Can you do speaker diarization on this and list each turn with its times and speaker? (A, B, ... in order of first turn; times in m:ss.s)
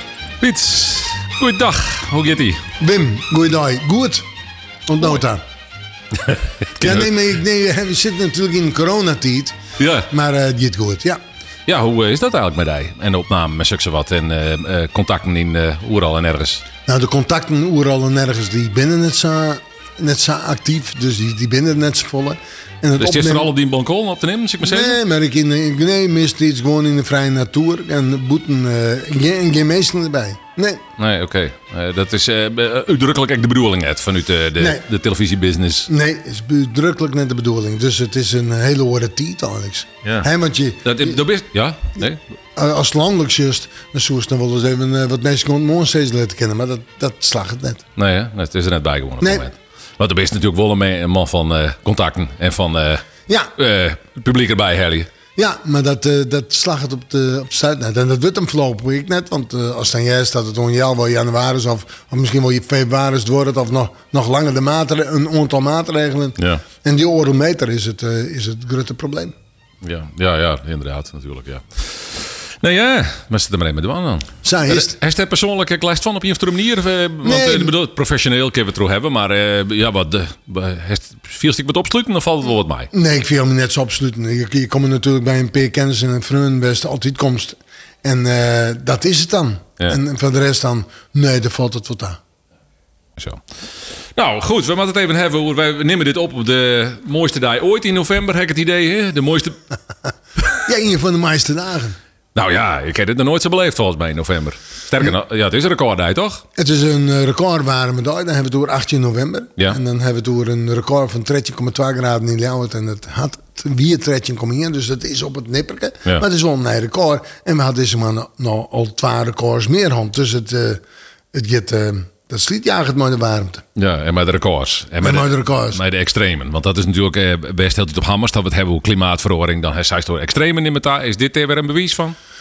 0:00.4-0:02.6 A
0:02.8-0:04.2 B
0:04.9-0:05.4 B
0:06.2-0:07.1 A
0:06.8-0:09.5 B
0:09.8-0:10.1 A
0:10.1-0:11.2 B
0:11.6-0:16.6 A
0:16.9-0:23.5 B
0:23.0-0:25.0 A
0:24.6-0:30.8 B
0:31.0-0:35.9 A
0:34.6-0:34.8 B
0:35.9-0:41.2 B
0:40.0-0:40.3 A
0:40.8-0:42.2 A
0:42.6-0:47.8 B
0:48.0-0:55.1 A
0:49.2-0:49.5 B
0:55.4-1:09.3 B
1:06.4-1:06.6 A
1:09.8-1:22.9 A
1:14.4-1:14.9 B
1:17.2-1:17.8 B
1:22.9-1:32.2 B
1:34.2-1:39.6 A
1:40.6-1:42.0 B
1:42.3-1:46.4 A
1:46.6-2:00.8 B
2:01.3-2:03.6 B
2:03.7-2:12.2 A
2:05.0-2:05.8 B